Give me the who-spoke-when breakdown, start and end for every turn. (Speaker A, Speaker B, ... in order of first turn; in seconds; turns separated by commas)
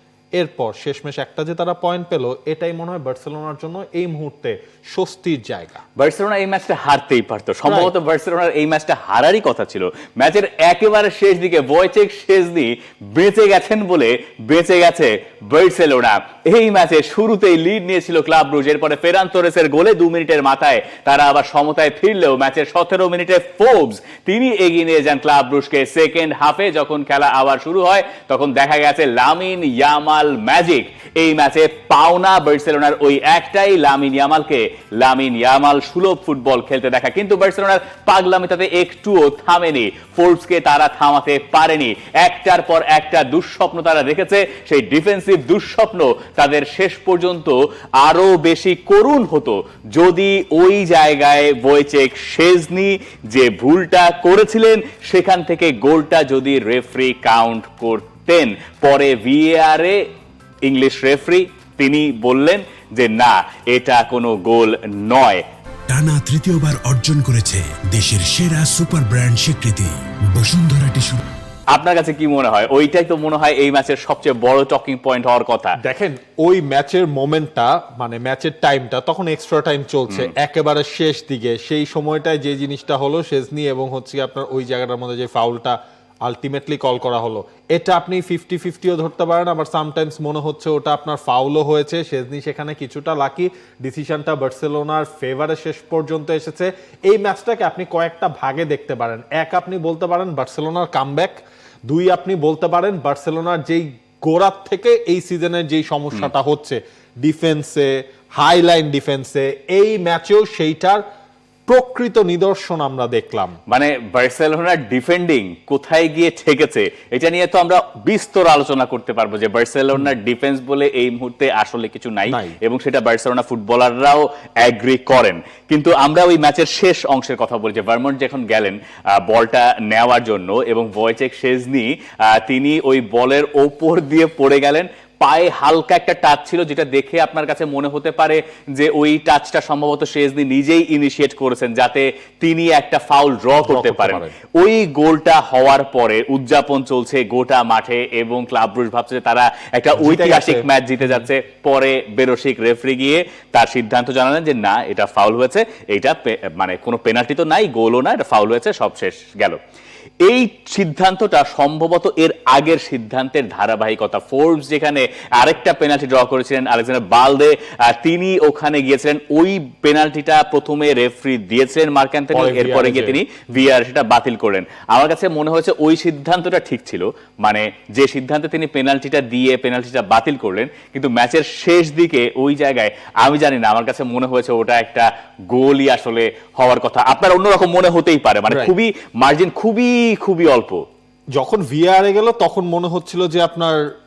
Speaker A: 0.4-5.8, Speaker B: 6.0-60.0, Speaker A: 7.7-7.9, Speaker B: 60.7-65.4, Speaker C: 65.9-71.2, Speaker B: 71.7-75.8, Speaker A: 75.8-101.4, Speaker A: 101.9-111.0, Speaker A: 111.7-113.6, Speaker B: 113.7-159.6, Speaker A: 122.3-122.6, Speaker A: 143.6-144.3, Speaker A: 150.0-151.3, Speaker B: 160.2-190.8, Speaker A: 172.3-173.2, Speaker A: 188.5-188.7, Speaker A: 191.3-193.8